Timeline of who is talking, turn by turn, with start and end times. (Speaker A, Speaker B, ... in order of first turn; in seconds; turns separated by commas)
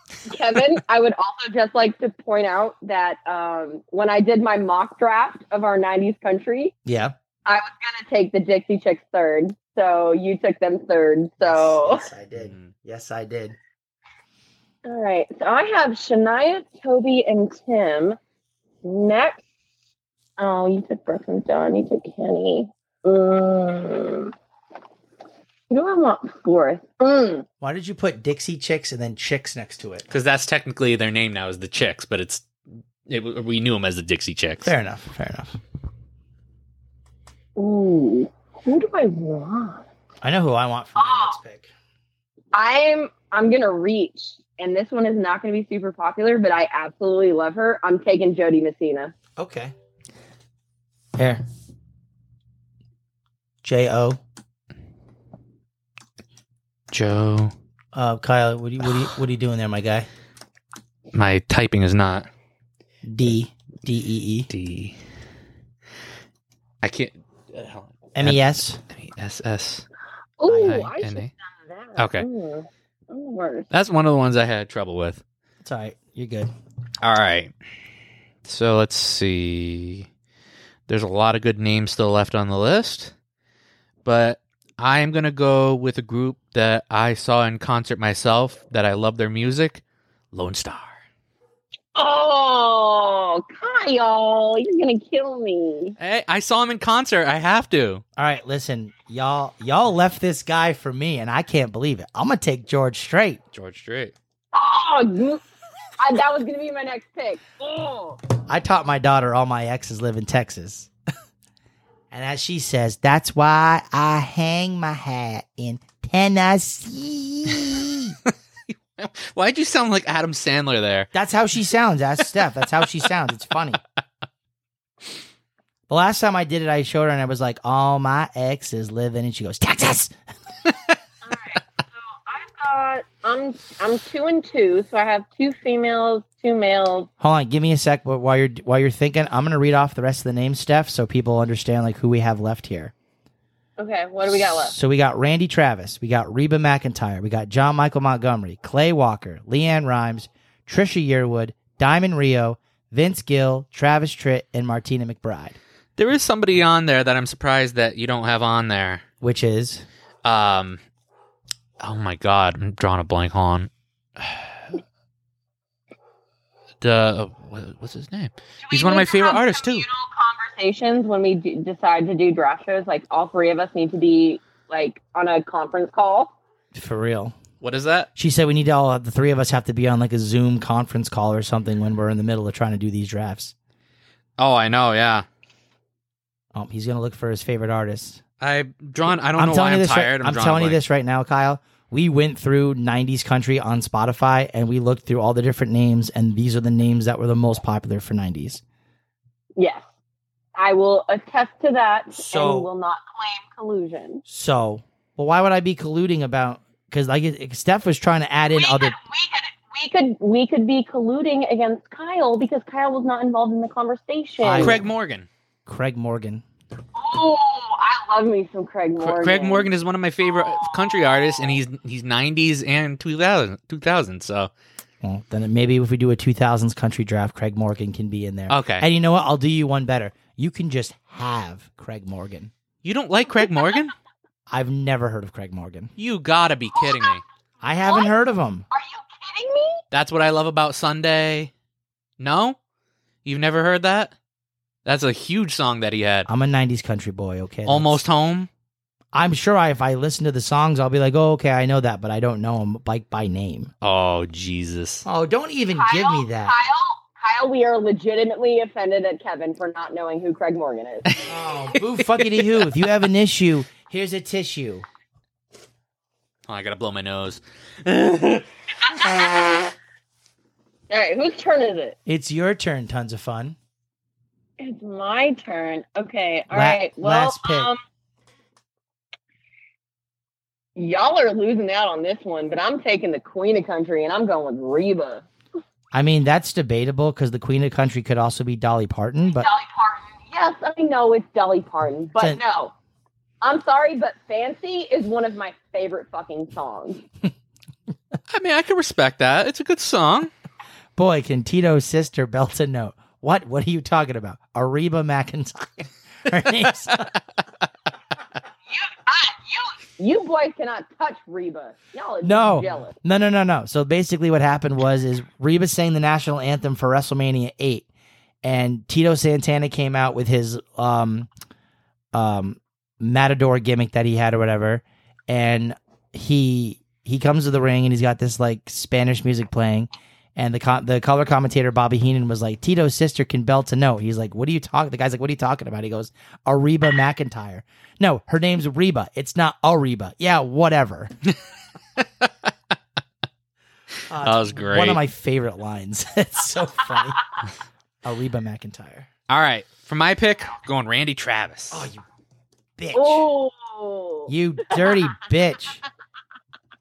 Speaker A: 0.2-6.7, Speaker B: 6.8-7.1, Speaker A: 7.5-12.1, Speaker B: 11.4-13.6, Speaker C: 12.3-12.7, Speaker A: 14.8-18.2, Speaker A: 18.8-19.4, Speaker A: 20.4-24.3, Speaker A: 25.7-27.4, Speaker B: 27.6-30.1, Speaker C: 30.1-32.5, Speaker C: 33.1-34.7, Speaker B: 34.6-35.6, Speaker A: 37.5-39.8, Speaker B: 40.2-41.7, Speaker A: 41.0-41.4, Speaker A: 42.5-49.1, Speaker B: 49.4-49.7, Speaker B: 51.2-51.4, Speaker B: 53.6-54.2, Speaker C: 56.9-57.5, Speaker B: 57.9-60.1, Speaker C: 61.1-62.3, Speaker B: 63.0-64.5, Speaker C: 64.5-65.0, Speaker C: 66.8-69.8, Speaker B: 68.1-68.8, Speaker A: 70.4-73.7, Speaker B: 70.5-70.8, Speaker C: 70.5-71.3, Speaker C: 72.0-72.3, Speaker C: 73.7-75.2, Speaker B: 75.6-76.5, Speaker C: 77.0-77.5, Speaker C: 78.4-80.1, Speaker C: 80.9-83.1, Speaker C: 84.0-91.0, Speaker A: 91.9-96.0, Speaker C: 96.0-98.0, Speaker B: 98.2-103.4, Speaker C: 103.5-104.1, Speaker A: 104.5-105.4, Speaker A: 106.0-108.2, Speaker B: 108.5-110.9, Speaker B: 112.1-118.2, Speaker C: 118.7-121.1, Speaker B: 121.1-123.8, Speaker B: 125.9-130.1, Speaker A: 131.2-137.1, Speaker B: 137.2-142.9, Speaker A: 143.8-144.7, Speaker B: 144.3-155.6, Speaker C: 156.0-159.0, Speaker B: 159.2-159.8, Speaker C: 160.2-160.8, Speaker C: 161.8-164.5, Speaker C: 166.8-169.8, Speaker A: 168.6-176.3, Speaker B: 176.7-177.3, Speaker C: 177.6-178.1, Speaker B: 178.2-183.5, Speaker C: 184.4-185.2, Speaker B: 186.5-188.2, Speaker C: 188.4-190.8, Speaker B: 189.3-198.6, Speaker A: 199.6-199.8, Speaker A: 200.6-204.2, Speaker B: 202.2-202.7, Speaker B: 204.3-208.9, Speaker A: 208.5-214.8, Speaker B: 214.4-214.8, Speaker C: 214.6-215.3, Speaker B: 215.7-216.4, Speaker A: 216.9-219.7, Speaker C: 219.0-224.5, Speaker A: 220.3-221.4, Speaker B: 225.0-232.5, Speaker C: 228.5-228.9, Speaker C: 232.8-233.9, Speaker B: 234.5-235.9, Speaker C: 236.0-237.2, Speaker A: 236.8-237.1, Speaker B: 237.6-238.7, Speaker A: 237.8-238.1, Speaker A: 238.7-239.8, Speaker C: 239.9-241.5, Speaker C: 242.2-242.6, Speaker C: 243.2-244.1, Speaker C: 244.8-246.3, Speaker B: 246.3-248.0, Speaker C: 247.7-248.5, Speaker B: 249.1-253.7, Speaker C: 253.8-255.1, Speaker B: 255.1-256.5, Speaker A: 255.7-261.1, Speaker B: 261.2-264.9, Speaker C: 262.0-262.4, Speaker C: 266.5-268.4, Speaker A: 268.8-269.3, Speaker A: 270.9-271.9, Speaker B: 272.1-273.6, Speaker A: 274.6-277.8, Speaker B: 276.5-277.7, Speaker A: 280.8-285.2, Speaker B: 285.9-289.5, Speaker A: 289.3-292.7, Speaker A: 293.4-297.0, Speaker C: 298.3-300.3, Speaker B: 300.9-307.1, Speaker A: 308.7-312.9, Speaker B: 312.2-317.9, Speaker B: 318.4-321.3, Speaker B: 322.1-341.1, Speaker C: 342.0-342.5, Speaker B: 344.1-347.2, Speaker C: 344.2-345.0, Speaker B: 348.0-349.1, Speaker C: 349.3-351.9, Speaker B: 351.7-352.0, Speaker B: 352.8-353.2, Speaker A: 352.9-355.0, Speaker B: 354.3-355.8